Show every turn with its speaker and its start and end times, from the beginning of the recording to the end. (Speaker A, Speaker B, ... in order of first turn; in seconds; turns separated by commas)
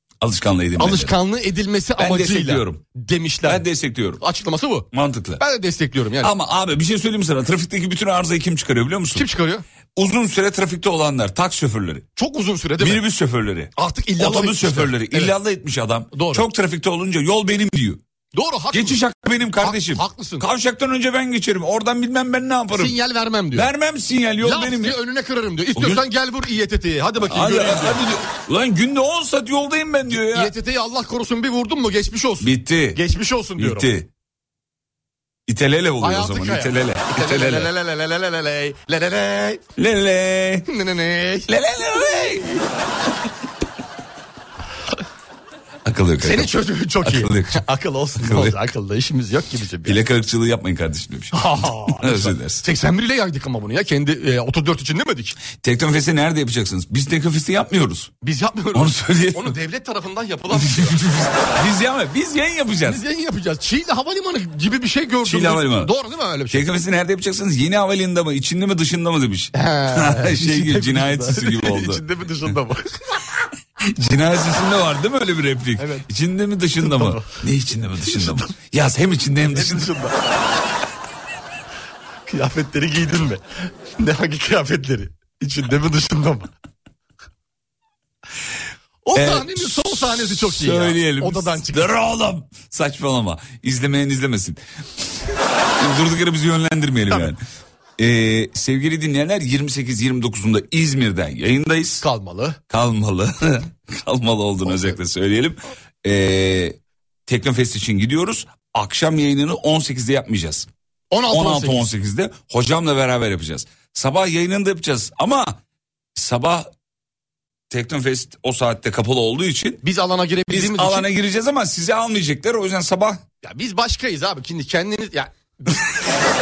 Speaker A: 0.2-1.1, Speaker B: 0.8-3.6, Speaker A: 2.0-2.8, Speaker A: 3.4-4.2, Speaker B: 4.2-4.9, Speaker A: 4.9-5.4, Speaker B: 5.4-6.3, Speaker A: 6.2-9.3, Speaker B: 9.1-9.6, Speaker A: 10.0-12.0, Speaker B: 12.2-13.0, Speaker A: 12.8-18.0, Speaker B: 13.8-15.3, Speaker B: 16.1-16.4, Speaker B: 18.3-19.0, Speaker A: 18.7-22.9, Speaker B: 19.6-20.4, Speaker B: 22.7-23.7, Speaker A: 23.5-25.0, Speaker B: 24.4-28.0, Speaker A: 25.8-26.1, Speaker A: 27.2-30.5, Speaker B: 30.1-33.9, Speaker A: 32.4-33.0, Speaker A: 33.6-34.1, Speaker A: 35.5-37.7, Speaker B: 36.0-39.6, Speaker A: 39.8-40.7, Speaker B: 40.7-41.5, Speaker A: 41.5-42.6, Speaker A: 45.9-47.6, Speaker B: 46.2-50.0, Speaker A: 48.2-48.6, Speaker A: 49.9-52.6, Speaker B: 51.3-55.4, Speaker A: 55.5-58.1, Speaker B: 58.2-61.0, Speaker A: 58.7-59.5, Speaker A: 60.5-63.0, Speaker B: 62.9-66.7, Speaker A: 65.2-65.9, Speaker A: 66.5-72.0, Speaker B: 69.5-73.0, Speaker A: 73.8-79.9, Speaker B: 75.8-76.0, Speaker B: 76.8-77.3, Speaker B: 78.1-78.4, Speaker B: 79.5-80.2, Speaker B: 82.3-83.4, Speaker B: 84.0-86.5, Speaker B: 89.0-91.9, Speaker A: 89.1-94.6, Speaker A: 95.8-97.4, Speaker A: 98.0-102.0, Speaker B: 102.0-102.6, Speaker A: 102.7-110.7, Speaker B: 111.1-111.9, Speaker A: 111.3-115.6, Speaker A: 116.2-116.7, Speaker A: 117.7-119.8, Speaker B: 119.8-121.1, Speaker A: 120.5-123.2, Speaker B: 123.4-125.9